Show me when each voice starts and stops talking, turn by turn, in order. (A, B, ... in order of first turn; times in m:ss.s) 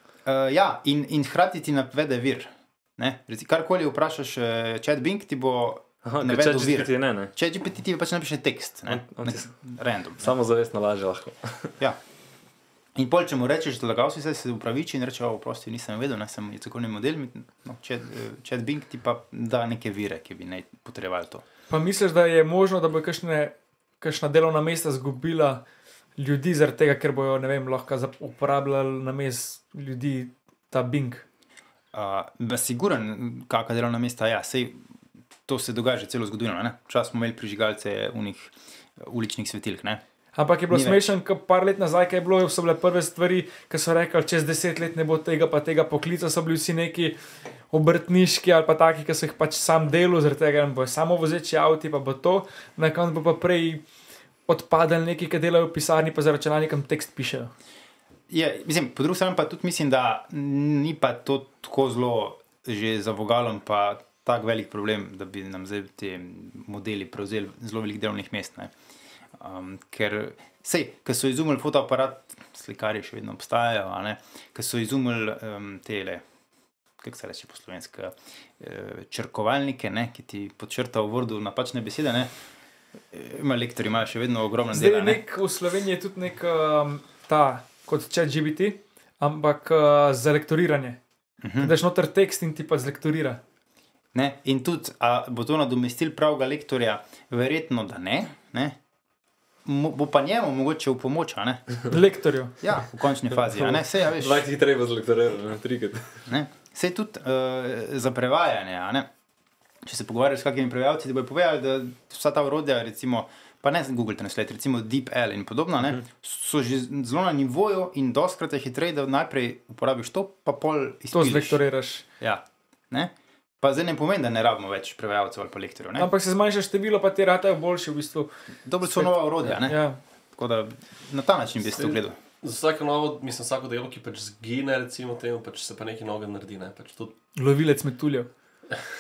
0:00.2-0:10.3 A
0:06.0-0:07.3 B
0:08.9-0:09.4 B
0:10.2-0:11.7 B
0:13.0-0:21.4 A
0:21.7-0:25.6 C
0:26.2-0:31.2 C
0:31.9-0:34.8 A
0:35.5-0:40.0 A
0:40.3-0:47.2 C
0:40.7-0:41.1 A
0:47.7-0:53.8 C
0:54.4-0:57.5 C
0:58.3-1:08.7 A
1:09.4-1:16.2 A
1:17.0-1:22.3 A
1:23.1-1:25.2 A
1:24.7-1:31.0 C
1:31.4-1:31.7 A
1:31.6-1:33.4 C
1:34.1-1:38.8 A
1:39.6-1:41.8 A
1:41.9-1:42.7 C
1:42.6-1:44.4 A
1:44.1-1:46.2 B
1:46.3-1:49.1 A
1:49.8-2:01.6 A
2:01.1-2:02.0 C
2:02.2-2:06.1 A
2:06.0-2:10.0 C
2:08.6-2:12.2 A
2:11.7-2:17.2 D
2:17.3-2:18.3 C